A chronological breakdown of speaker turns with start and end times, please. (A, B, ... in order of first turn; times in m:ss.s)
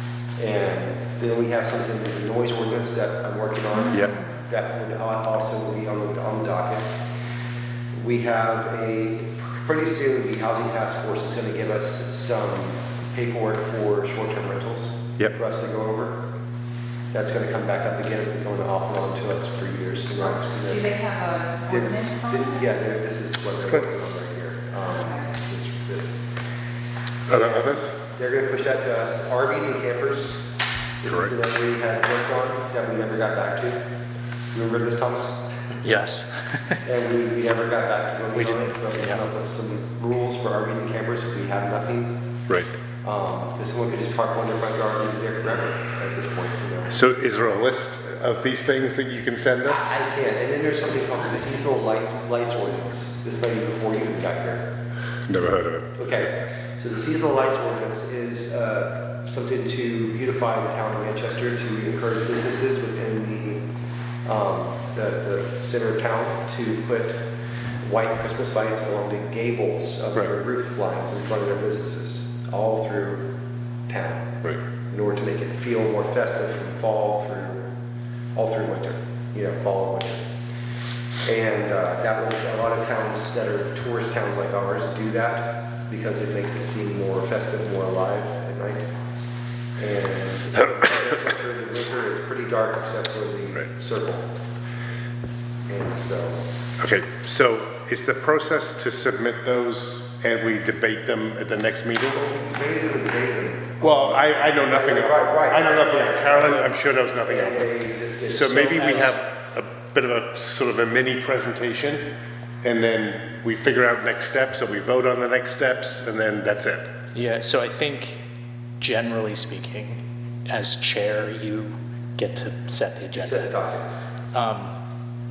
0:00.4-0:06.9 A
0:03.8-0:04.4 B
0:08.0-0:16.2 A
0:17.1-0:21.0 A
0:20.6-0:22.6 B
0:21.6-0:26.3 A
0:24.9-0:25.3 B
0:27.3-0:27.9 C
0:27.3-0:30.4 A
0:31.0-0:33.8 A
0:31.1-0:31.3 C
0:34.5-0:35.4 A
0:35.8-0:36.8 D
0:36.8-0:42.2 A
0:38.4-0:39.2 D
0:43.0-0:47.0 A
0:46.9-0:49.9 C
0:49.6-0:54.7 A
0:55.3-0:56.3 C
0:56.0-1:03.7 A
1:04.2-1:07.2 A
1:07.8-1:13.3 A
1:13.9-1:17.7 A
1:18.4-1:20.3 A
1:21.2-1:28.9 A
1:29.8-1:34.3 A
1:35.7-1:36.4 A
1:36.8-1:42.2 C
1:42.1-1:46.7 A
1:43.8-1:47.7 C
1:47.2-1:49.2 A
1:48.3-1:52.1 C
1:48.8-1:49.2 D
1:52.6-1:56.9 C
1:57.1-1:58.2 D
1:58.8-2:03.6 D
2:03.1-2:03.9 A
2:04.3-2:04.7 D